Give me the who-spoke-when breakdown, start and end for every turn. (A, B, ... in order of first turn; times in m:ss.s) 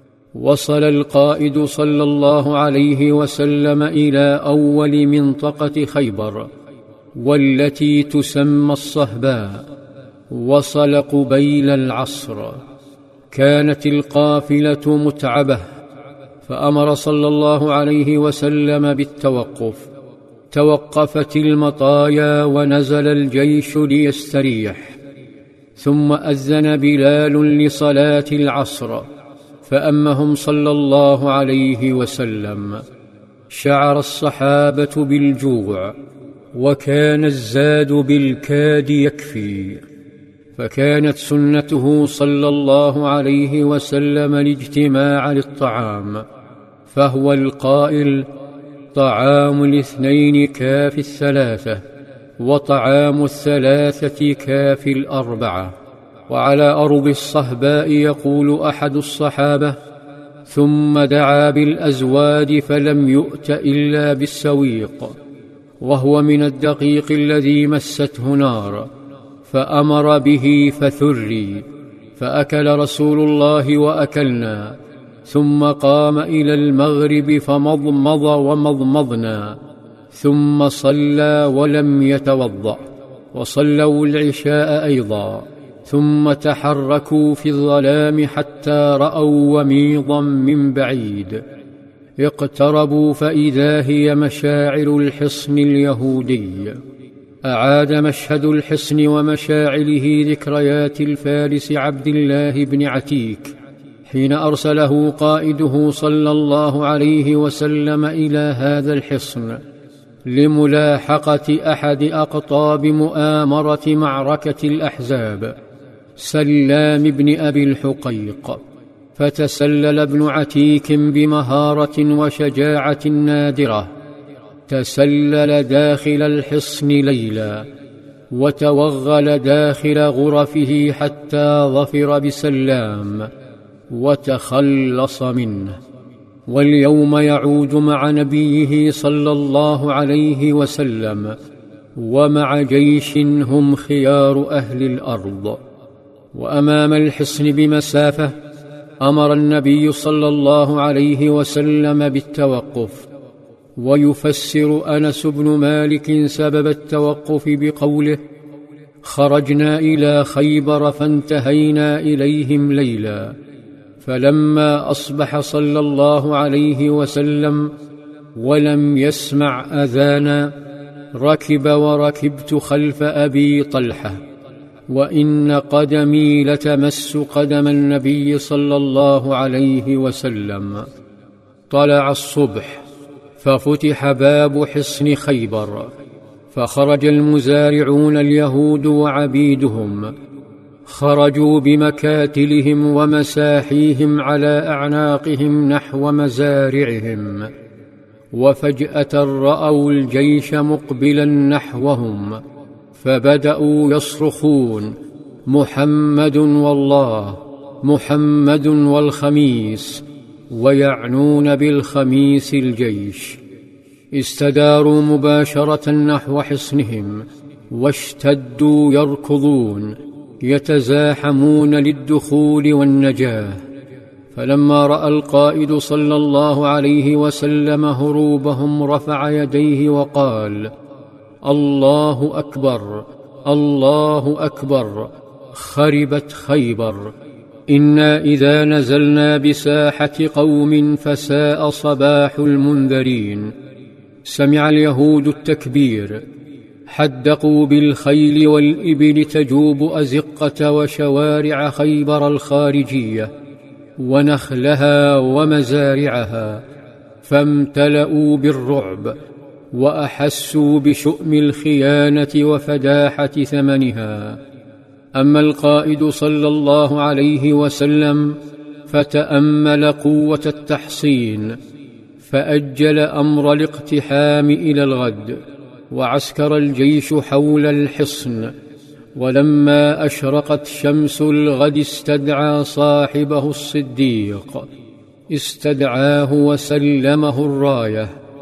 0:00.3-0:06.5 A
0:07.1-0:09.6 A
0:10.3-0:12.6 A
0:13.3-0:15.7 A
0:16.4-0:19.9 A
0:20.5-0:25.0 A
0:25.8-0:29.1 A
0:29.6-0:32.8 A
0:33.5-0:36.0 A
0:36.5-0:39.8 A
0:40.6-0:46.2 A
0:46.9-0:48.3 A
0:48.9-0:51.8 A
0:52.4-0:55.8 A
0:56.3-0:59.8 A
1:00.5-1:05.2 A
1:05.8-1:08.9 A
1:09.5-1:19.6 A
1:20.1-1:31.4 A
1:32.2-1:36.8 A
1:37.4-1:43.5 A
1:44.1-1:49.6 A
1:50.2-1:55.6 A
1:56.2-1:58.6 A
1:59.2-2:03.9 A
2:04.7-2:07.7 A
2:08.3-2:13.3 A
2:13.9-2:15.8 A
2:16.5-2:21.4 A
2:22.0-2:25.6 A
2:26.3-2:28.4 A
2:29.0-2:33.1 A
2:33.8-2:38.2 A
2:39.0-2:43.4 A
2:44.0-2:47.7 A
2:48.3-2:50.5 A
2:51.1-2:54.2 A
2:54.9-3:00.9 A
3:01.7-3:02.8 A
3:03.4-3:05.9 A
3:06.5-3:10.1 A
3:10.9-3:17.5 A
3:18.3-3:22.4 A
3:23.0-3:33.4 A
3:34.1-3:43.6 A
3:44.3-3:50.7 A
3:51.4-3:57.1 A
3:57.7-4:03.5 A
4:04.2-4:06.2 A
4:06.9-4:13.3 A
4:14.0-4:16.6 A
4:17.2-4:19.2 A
4:19.7-4:24.4 A
4:25.2-4:31.6 A
4:32.2-4:38.5 A
4:39.1-4:44.7 A
4:45.3-4:48.1 A